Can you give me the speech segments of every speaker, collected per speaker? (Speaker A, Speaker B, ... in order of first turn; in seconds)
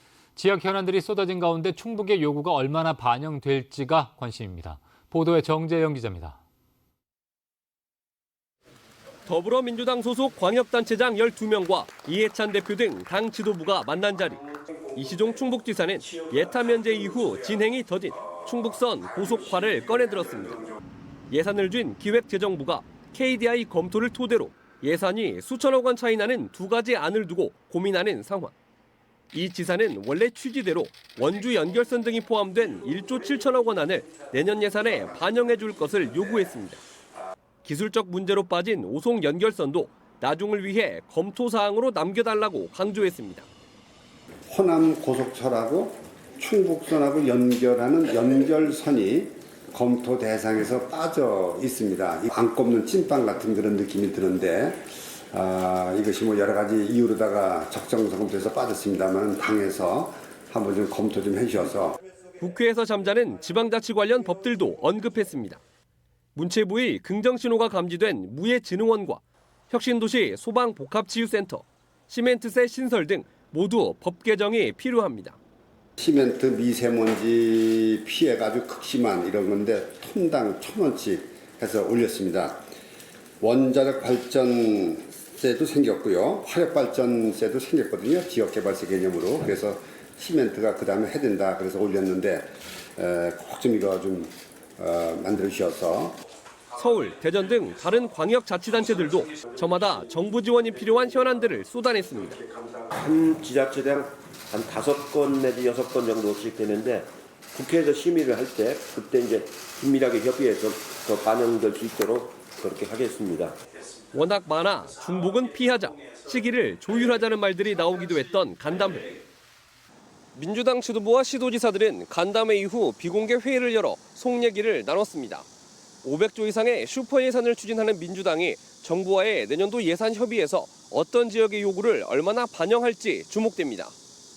Speaker A: 0.4-6.4
Speaker B: 9.3-20.6, 21.3-28.5, 29.3-36.8, 37.6-43.5, 62.4-65.6, 66.4-75.4, 96.8-102.4, 114.1-119.2, 120.3-125.5, 126.0-133.9
Speaker C: 44.5-62.0, 76.0-82.6, 83.4-96.2
Speaker D: 102.9-113.6